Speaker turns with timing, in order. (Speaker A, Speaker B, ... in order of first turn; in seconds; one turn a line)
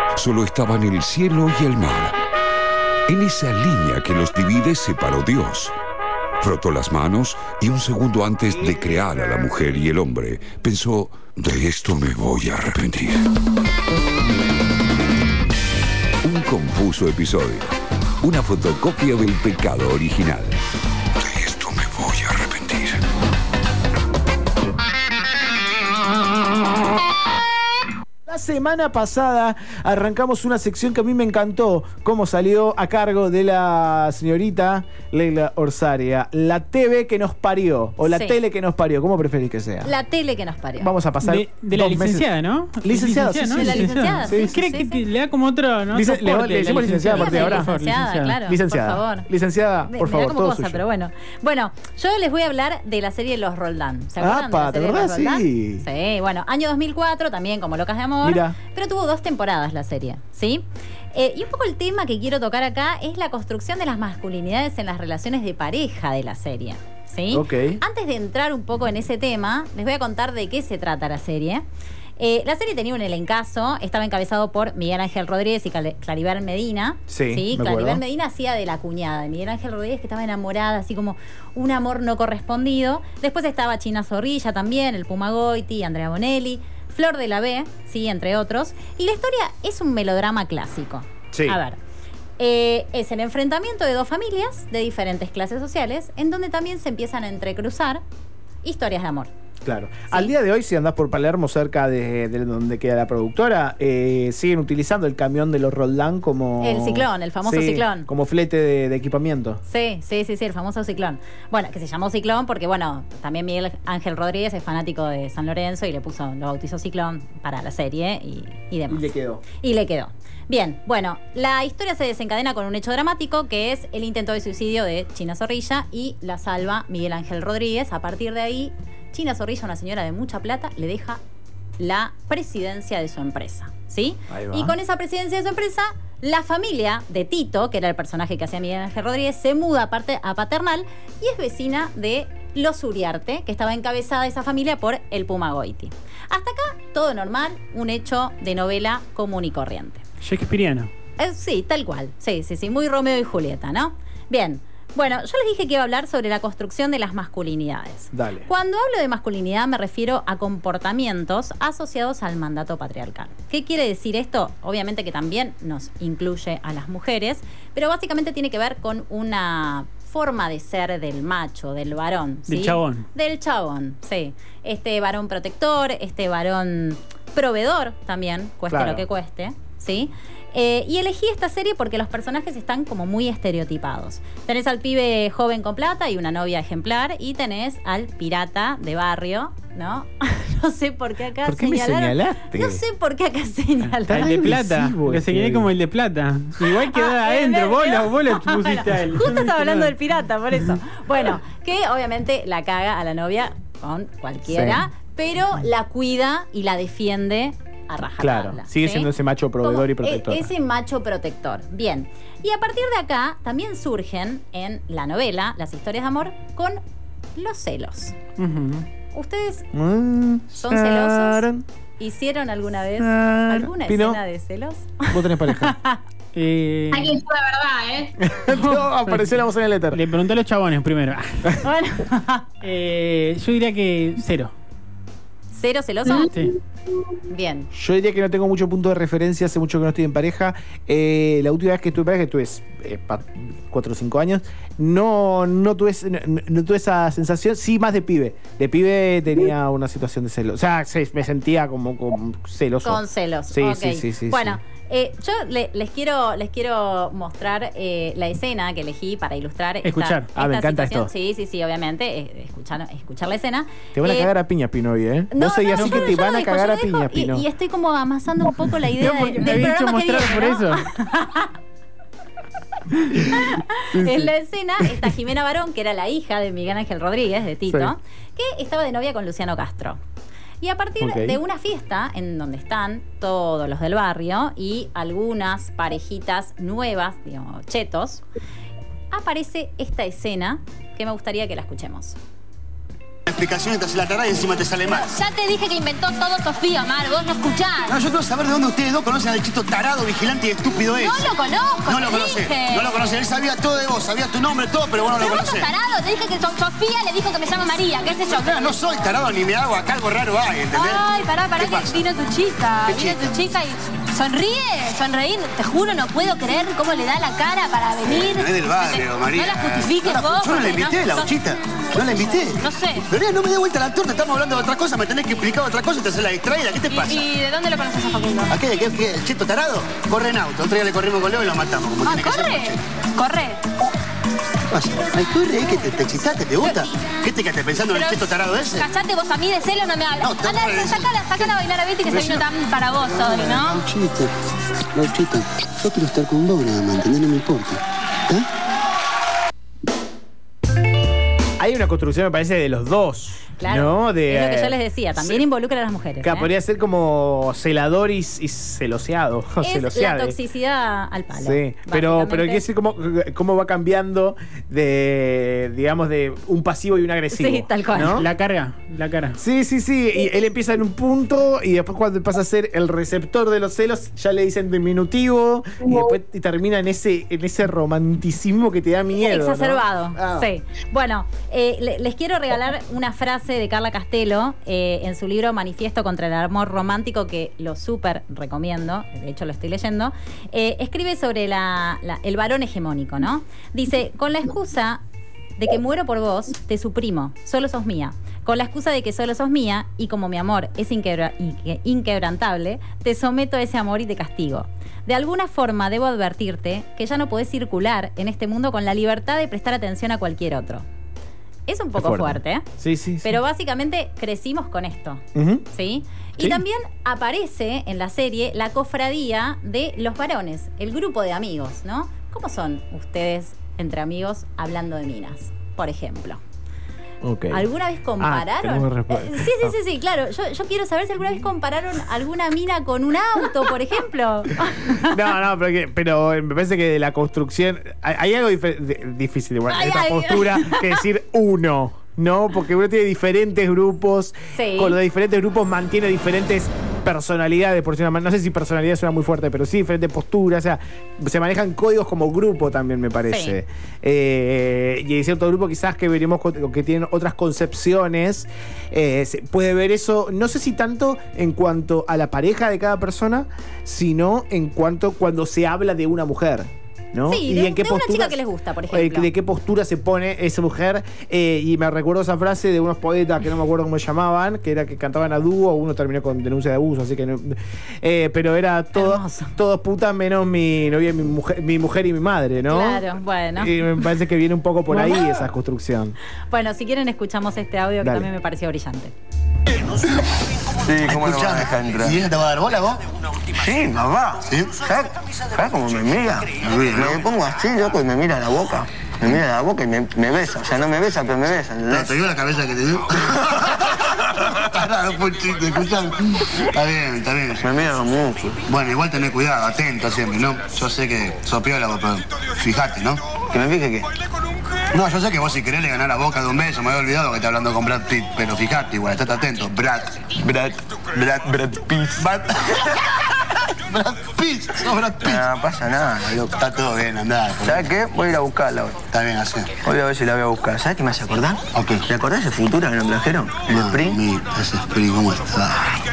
Speaker A: 0.2-2.2
Speaker A: 3.1-5.7
Speaker A: 6.4-13.2
Speaker A: 16.2-20.6
Speaker A: 21.2-23.0
Speaker B: 28.3-39.9
Speaker C: 38.0-38.4
Speaker C: 39.8-40.9
Speaker B: 40.8-44.5
Speaker D: 41.2-48.4
Speaker C: 43.5-45.0
Speaker B: 45.9-47.7
Speaker C: 46.6-49.3
Speaker B: 48.4-50.8
Speaker C: 49.9-71.6
Speaker B: 54.2-55.9
Speaker B: 58.2-58.5
Speaker B: 67.3-67.8
Speaker C: 72.2-91.8
Speaker B: 77.1-78.0
Speaker B: 91.3-91.6
Speaker C: 92.4-98.0
Speaker C: 98.6-99.3
Speaker B: 99.6-109.6
Speaker C: 106.6-108.1
Speaker C: 109.7-131.2
Speaker B: 118.9-119.4
Speaker C: 131.8-150.0
Speaker B: 134.3-134.7
Speaker D: 150.2-150.9
Speaker C: 151.2-194.4
Speaker B: 158.1-158.5
Speaker D: 172.5-173.1
Speaker B: 178.7-179.0
Speaker B: 191.4-192.8
Speaker B: 194.1-195.7
Speaker D: 194.1-199.9
Speaker C: 196.6-209.1
Speaker B: 204.5-204.8
Speaker B: 208.2-210.5
Speaker C: 209.6-216.8
Speaker C: 217.3-218.2
Speaker D: 218.4-218.9
Speaker C: 219.1-219.7
Speaker B: 219.7-221.6
Speaker C: 220.5-221.4
Speaker C: 222.0-226.0
Speaker B: 223.0-224.2
Speaker B: 225.1-225.8
Speaker D: 226.3-227.2
Speaker E: 226.9-228.1
Speaker B: 228.2-230.0
Speaker D: 228.5-229.3
Speaker D: 229.9-231.6
Speaker C: 231.6-232.5
Speaker D: 232.6-234.5
Speaker C: 235.5-236.3
Speaker C: 237.3-237.7
Speaker B: 237.7-254.6
Speaker C: 252.8-264.3
Speaker D: 259.8-260.3
Speaker B: 260.4-261.1
Speaker B: 263.9-267.4
Speaker C: 265.3-271.5
Speaker D: 265.7-266.2
Speaker D: 269.0-270.9
Speaker C: 273.3-280.0
Speaker B: 273.9-274.3
Speaker B: 277.7-277.9
Speaker C: 280.6-288.2
Speaker B: 281.0-281.4
Speaker C: 289.1-292.2
Speaker F: 293.3-295.1
Speaker E: 294.8-298.0
Speaker F: 297.9-305.7
Speaker E: 300.9-303.0
Speaker E: 305.0-308.6
Speaker F: 308.3-312.1
Speaker E: 310.7-321.4
Speaker F: 312.8-313.4
Speaker F: 318.0-327.3
Speaker E: 321.9-323.1
Speaker E: 326.9-328.6
Speaker F: 328.5-332.8
Speaker E: 332.0-333.6
Speaker F: 334.7-338.9
Speaker E: 336.6-336.9
Speaker E: 337.9-343.8
Speaker F: 340.2-342.5
Speaker F: 343.1-344.3
Speaker F: 344.9-348.4
Speaker B: 351.6-355.4
Speaker C: 353.6-356.5
Speaker B: 356.2-360.4
Speaker C: 359.6-362.6
Speaker B: 361.3-368.3
Speaker C: 367.3-368.2
Speaker D: 368.0-369.4
Speaker B: 369.4-380.5
Speaker C: 379.1-395.0
Speaker C: 395.6-410.9
Speaker C: 411.7-412.6
Speaker B: 411.9-413.4
Speaker C: 413.2-426.4
Speaker B: 415.3-415.6
Speaker B: 427.2-427.7
Speaker C: 427.5-435.3
Speaker B: 428.2-429.8
Speaker B: 435.0-468.4
Speaker C: 439.7-441.0
Speaker C: 444.5-445.0
Speaker C: 453.3-453.6
Speaker C: 467.3-469.3
Speaker B: 468.9-486.1
Speaker C: 478.9-479.5
Speaker C: 482.6-484.0
Speaker D: 484.9-485.2
Speaker C: 486.5-489.1
Speaker B: 488.0-488.3
Speaker F: 490.8-493.0
Speaker G: 491.3-492.1
Speaker G: 493.8-494.1
Speaker F: 494.4-494.8
Speaker G: 495.7-496.4
Speaker F: 496.5-498.0
Speaker G: 497.2-502.0
Speaker F: 501.8-508.0
Speaker G: 507.6-508.4
Speaker F: 508.6-513.2
Speaker F: 514.9-520.2
Speaker F: 521.1-523.2
Speaker F: 523.9-525.6
Speaker F: 526.2-528.1
Speaker G: 527.7-528.4
Speaker F: 529.0-529.7
Speaker F: 531.7-532.1
Speaker G: 532.3-533.9
Speaker F: 533.6-535.7